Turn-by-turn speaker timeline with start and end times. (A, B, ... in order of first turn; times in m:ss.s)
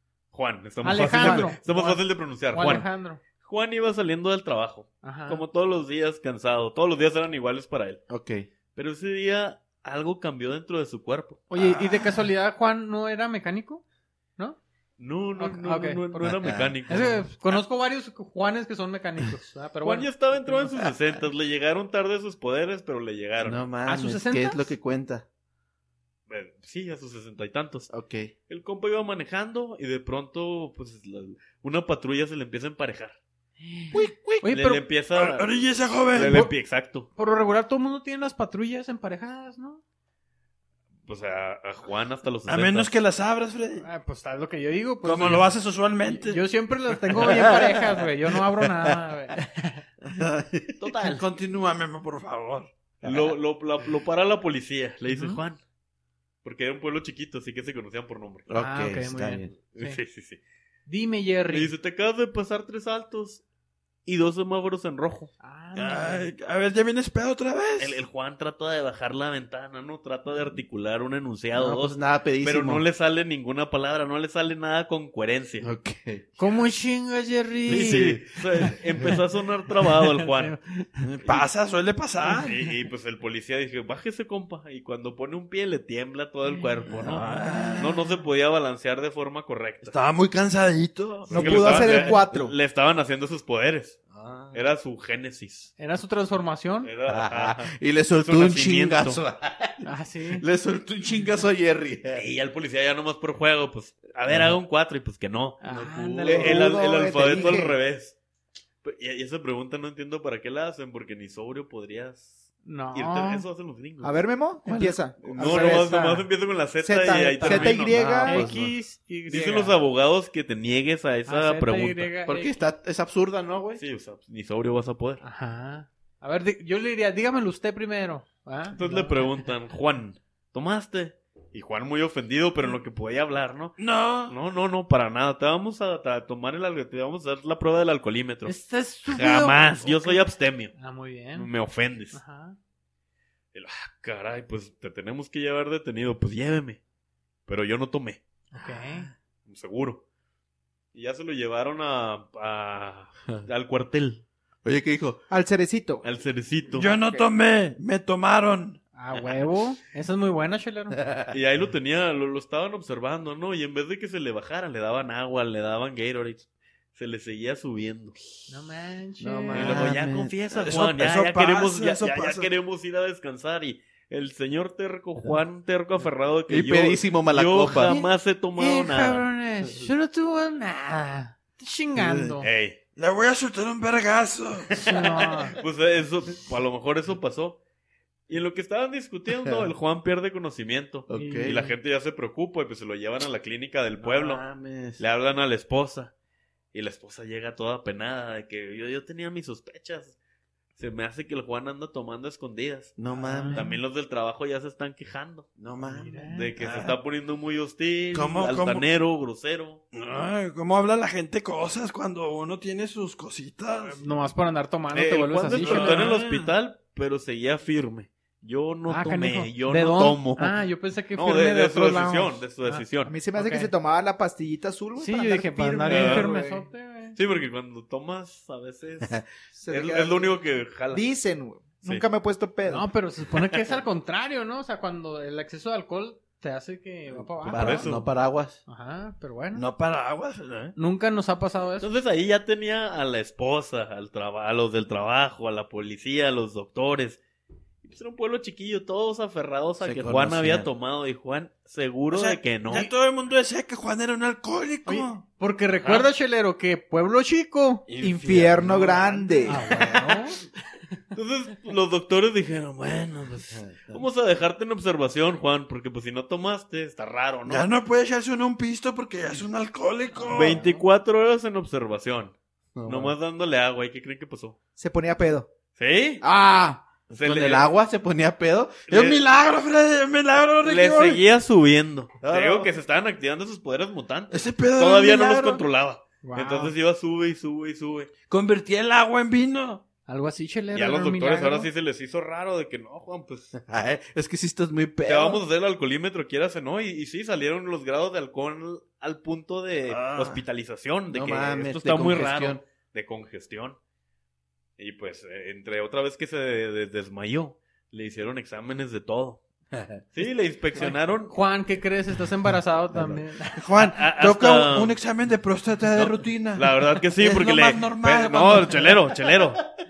0:00.3-0:02.9 A
0:00.8-0:03.2 B
0:01.2-0:01.5 C
0:03.4-0:08.0 A
0:05.0-0:05.4 B
0:08.1-0:08.5 D
0:08.7-0:11.5 A
0:11.5-0:13.8 B
0:11.6-0:12.2 D
0:15.0-0:17.3 A
0:15.4-0:20.6 B
0:16.2-0:16.8 D
0:19.8-0:23.6 A
0:23.4-0:25.2 D
0:23.9-0:24.7 B
0:26.3-0:27.9 A
0:27.9-0:28.3 D
0:28.5-0:33.2 A
0:33.6-0:34.8 B
0:33.9-0:34.5 D
0:34.4-0:35.5 A
0:35.1-0:36.4 E
0:36.1-0:37.1 A
0:36.3-0:36.5 B
0:37.2-0:39.8 B
0:41.1-0:42.9 A
0:42.5-0:43.9 E
0:43.8-0:45.5 B
0:45.0-0:46.4 E
0:46.0-0:49.8 B
0:47.2-0:47.8 D
0:50.0-0:51.4 D
0:50.8-0:51.2 A
0:51.4-0:52.7 E
0:53.0-0:53.4 D
0:53.0-0:55.6 A
0:55.1-0:55.4 B
0:56.4-0:58.5 A
0:58.5-0:59.6 D
0:58.6-1:00.0 B
0:59.8-1:00.4 A
1:00.9-1:01.7 B
1:01.5-1:03.4 A
1:04.1-1:05.3 A
1:05.4-1:06.3 B
1:05.8-1:08.0 E
1:07.8-1:15.7 A
1:11.5-1:12.8 D
1:15.6-1:16.3 D
1:16.4-1:18.2 B
1:17.7-1:18.7 D
1:17.7-1:20.5 A
1:20.0-1:21.0 B
1:21.2-1:22.6 E
1:22.3-1:27.2 A
1:26.5-1:28.3 B
1:27.0-1:27.2 D
1:27.0-1:27.9 E
1:27.8-1:29.9 A
1:29.8-1:31.9 E
1:31.3-1:32.6 C
1:31.3-1:34.0 A
1:34.1-1:34.6 D
1:34.5-1:35.7 A
1:35.8-1:36.9 B
1:36.8-1:39.2 A
1:37.1-1:42.2 D
1:39.8-1:40.5 B
1:42.1-1:48.2 A
1:45.6-1:46.8 B
1:46.3-1:47.8 C
1:47.3-1:47.6 B
1:48.8-1:54.3 A
1:52.6-1:53.4 B
1:54.0-1:56.1 C
1:54.7-1:55.0 D
1:54.8-1:56.2 B
1:55.2-1:58.0 A
1:56.8-1:58.5 C
1:57.4-1:59.8 B
1:57.5-1:58.8 D
1:59.3-2:02.1 A
2:01.3-2:02.6 B
2:02.3-2:03.8 D
2:03.8-2:05.2 A
2:05.2-2:09.3 B
2:08.7-2:18.6 A
2:13.8-2:14.4 E
2:18.4-2:21.5 B
2:19.1-2:20.8 A
2:21.4-2:22.2 A
2:22.1-2:22.6 B
2:23.5-2:26.8 A
2:27.5-2:28.2 A
2:28.5-2:29.1 B
2:29.5-2:30.0 A
2:30.9-2:34.2 A
2:34.6-2:35.2 D
2:35.3-2:36.0 C
2:36.0-2:36.9 A
2:36.7-2:38.8 E
2:36.9-2:37.2 C
2:39.0-2:41.0 B
2:39.1-2:39.4 A
2:41.0-2:41.3 D
2:41.3-2:48.5 A
2:48.5-2:50.0 B
2:49.2-2:50.5 D
2:49.5-2:59.3 A
2:50.6-2:52.5 E
2:56.5-2:58.0 D
2:57.8-3:02.5 B
3:02.0-3:02.4 D
3:02.4-3:02.8 A
3:03.0-3:04.7 E
3:04.7-3:05.6 B
3:05.6-3:07.6 A
3:08.3-3:14.5 A
3:09.4-3:09.7 D
3:11.1-3:11.6 D
3:11.1-3:11.8 B
3:14.0-3:15.0 D
3:15.0-3:16.1 A
3:16.7-3:20.2 A
3:20.8-3:23.0 A
3:23.0-3:23.8 D
3:23.1-3:23.8 B
3:23.5-3:25.5 A
3:25.6-3:26.3 D
3:25.9-3:26.5 B
3:26.3-3:29.8 A
3:26.6-3:27.0 E
3:28.1-3:28.9 E
3:29.9-3:34.0 E
3:33.9-3:36.2 B
3:34.9-3:40.6 A
3:35.5-3:36.5 E
3:38.9-3:43.7 B
3:41.1-3:43.2 A
3:43.0-3:46.7 C
3:45.0-3:47.2 B
3:45.9-3:46.3 A
3:47.2-3:51.1 A
3:49.6-3:50.4 C
3:50.9-3:52.9 C
3:52.7-3:57.9 B
3:57.1-3:58.6 D
3:57.5-3:58.1 A
3:58.7-3:59.6 B
3:59.5-4:00.7 E
4:00.8-4:01.9 B
4:01.8-4:07.2 A
4:07.8-4:12.9 A
4:09.8-4:10.7 D
4:12.1-4:15.2 E
4:14.8-4:17.8 B
4:15.8-4:16.1 A
4:17.9-4:20.0 E
4:18.0-4:19.6 C
4:19.4-4:20.4 B
4:21.1-4:27.7 A
4:23.6-4:24.0 D
4:27.5-4:30.6 E
4:30.2-4:30.8 B
4:30.3-4:34.6 A
4:32.8-4:33.1 D
4:34.8-4:35.5 C
4:35.8-4:36.2 A
4:36.2-4:39.0 D
4:37.1-4:37.7 A
4:38.9-4:39.2 A
4:38.9-4:41.2 E
4:40.6-4:48.1 A
4:42.2-4:42.7 D
4:44.3-4:45.6 E
4:46.2-4:46.7 B
4:48.3-4:49.8 E
4:50.1-4:51.7 B
4:50.7-4:53.5 A
4:53.6-4:55.4 D
4:55.0-5:03.8 A
4:59.9-5:00.4 E
5:01.1-5:02.6 D
5:04.8-5:09.4 A
5:10.1-5:11.4 A
5:10.8-5:13.6 B
5:13.6-5:16.7 E
5:13.8-5:15.0 A
5:16.0-5:19.6 A
5:17.2-5:18.9 E